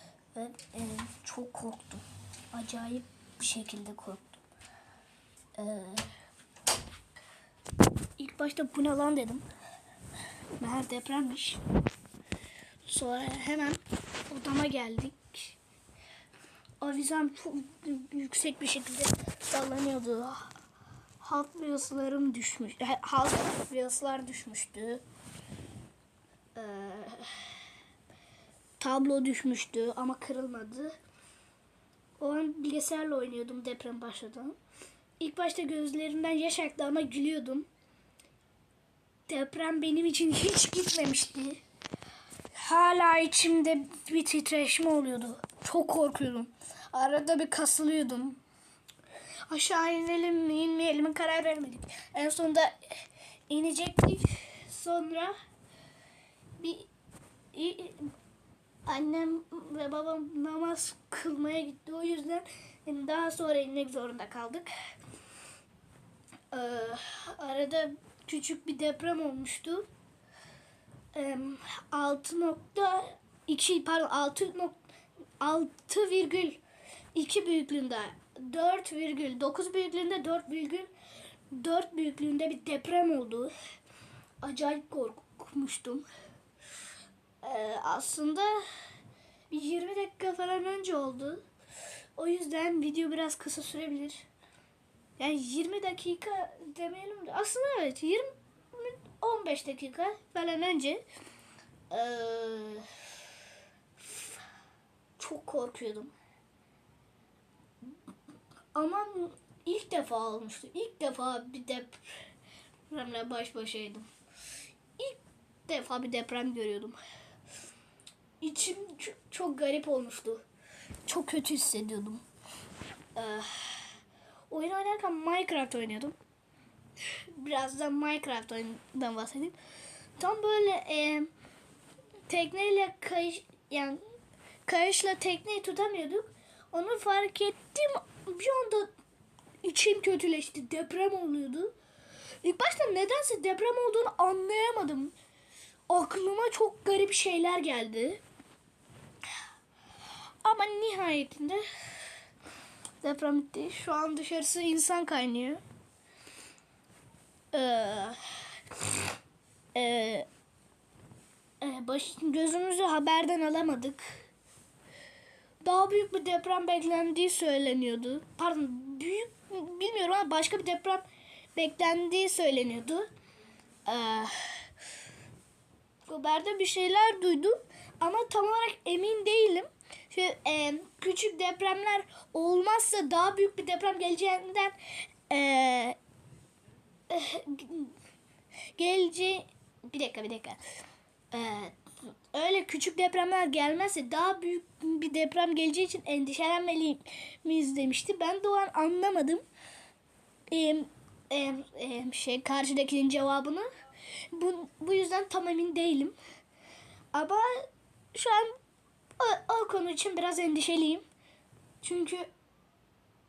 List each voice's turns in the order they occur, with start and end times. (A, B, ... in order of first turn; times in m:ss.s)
0:00.3-0:04.4 A
0:05.6-0:06.1 A
0:08.2-0:09.4 A
0:10.6-0:11.6 A
0:12.8-0:15.6 A
0:16.8-0:20.5 A
0:21.2-0:25.0 A
0:26.5-0:27.5 A
0:28.8-0:30.9 A
0:32.2-0:34.6 A
0:35.2-0:37.7 A
0:39.3-0:41.6 A
0:42.6-0:48.4 A
0:49.5-0:52.8 A
0:53.5-0:55.3 A
0:56.6-0:56.9 A
0:57.5-0:58.1 A
0:58.8-1:04.7 A
1:06.5-1:09.9 A
1:11.1-1:14.8 A
1:15.4-1:16.6 A
1:17.1-1:20.9 A
1:21.5-1:23.5 A
1:24.4-1:26.1 A
1:27.4-1:28.6 A
1:29.5-1:31.4 A
1:32.2-1:34.3 A
1:35.2-1:41.0 A
1:41.9-1:42.9 A
1:44.0-1:44.4 A
1:45.2-1:46.1 A
1:48.7-1:52.0 A
1:52.9-1:54.1 A
1:55.0-1:57.0 A
1:58.4-2:00.4 A
2:01.0-2:02.2 A
2:03.1-2:03.9 A
2:04.5-2:06.1 A
2:07.1-2:09.6 A
2:10.2-2:11.3 A
2:12.3-2:14.0 A
2:14.6-2:18.9 A
2:19.6-2:21.7 A
2:22.4-2:25.1 A
2:25.9-2:28.2 A
2:30.4-2:31.6 A
2:33.0-2:35.6 A
2:37.5-2:38.2 A
2:39.7-2:40.3 A
2:41.6-2:44.2 A
2:45.6-2:51.0 A
2:51.6-2:53.1 A
2:53.8-2:54.6 A
2:56.0-3:04.8 A
3:05.3-3:06.0 A
3:07.1-3:07.9 A
3:08.7-3:10.6 A
3:11.3-3:19.4 A
3:20.5-3:23.7 A
3:24.3-3:26.2 A
3:27.1-3:28.6 A
3:29.2-3:31.0 A
3:31.8-3:32.3 A